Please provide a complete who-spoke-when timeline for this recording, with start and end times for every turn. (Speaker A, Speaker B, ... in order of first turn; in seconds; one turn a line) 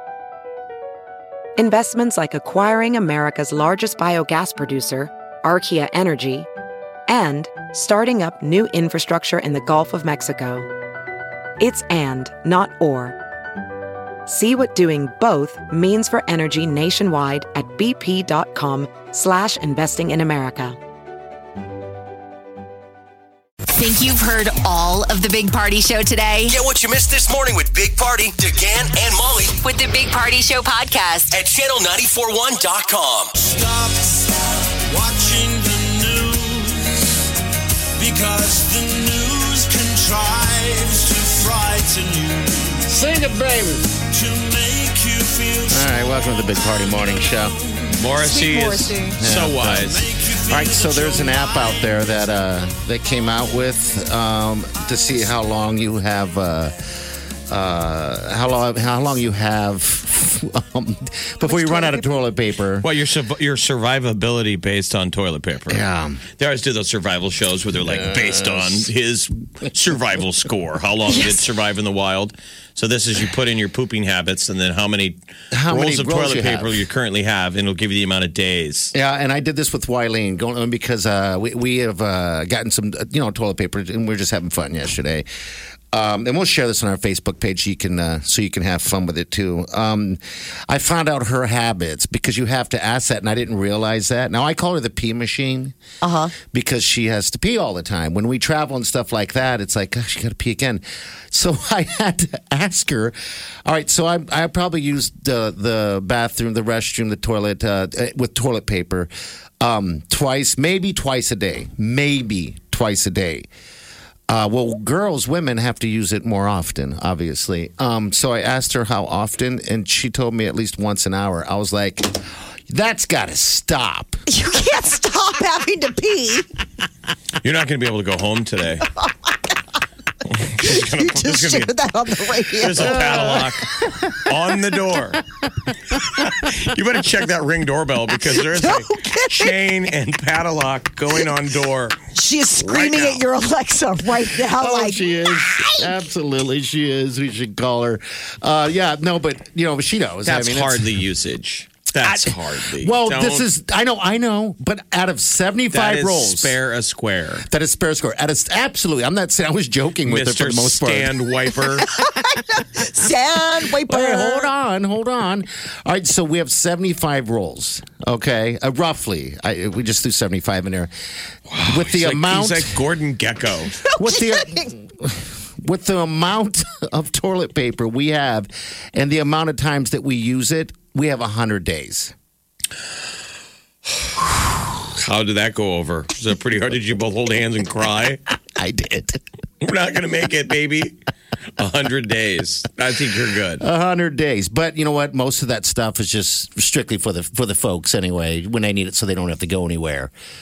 Speaker A: 1.6-6.5
Speaker A: 7.1-10.7
Speaker A: 11.6-13.2
Speaker A: 14.2-20.8
Speaker B: 23.8-26.6
Speaker C: 26.5-29.6
Speaker B: 29.6-31.4
Speaker C: 31.3-33.4
Speaker D: 33.5-34.1
Speaker D: 34.9-37.0
Speaker D: 38.0-42.7
Speaker E: 42.9-44.0
Speaker D: 44.2-45.6
Speaker E: 45.7-47.6
Speaker F: 47.9-50.1
Speaker G: 48.2-49.2
Speaker E: 49.2-56.8
Speaker E: 57.5-62.9
Speaker G: 61.4-62.1
Speaker F: 62.8-65.8
Speaker E: 65.7-66.2
Speaker F: 66.4-75.2
Speaker E: 67.8-68.8
Speaker G: 71.1-71.4
Speaker E: 75.5-76.8
Speaker F: 75.7-78.9
Speaker E: 78.9-85.2
Speaker E: 85.9-95.7
Speaker G: 96.0-96.3
Speaker E: 96.4-113.5
Speaker E: 114.3-124.2
Speaker G: 124.3-126.5
Speaker F: 127.4-128.9
Speaker G: 129.0-129.5
Speaker F: 130.2-131.7
Speaker G: 130.6-133.3
Speaker F: 132.5-135.2
Speaker E: 132.8-134.1
Speaker F: 135.9-142.0
Speaker G: 138.3-139.6
Speaker G: 142.1-145.9
Speaker F: 142.6-143.2
Speaker E: 144.5-150.9
Speaker F: 150.2-153.4
Speaker E: 152.0-156.6
Speaker F: 155.7-157.4
Speaker E: 157.4-161.1
Speaker F: 160.0-161.9
Speaker G: 161.8-164.5
Speaker E: 163.8-170.9
Speaker F: 171.5-173.8
Speaker E: 171.7-172.8
Speaker G: 173.8-174.7
Speaker E: 173.9-182.1
Speaker F: 184.0-188.2
Speaker E: 188.6-189.2
Speaker F: 189.6-190.9
Speaker F: 191.6-193.6
Speaker E: 193.6-200.1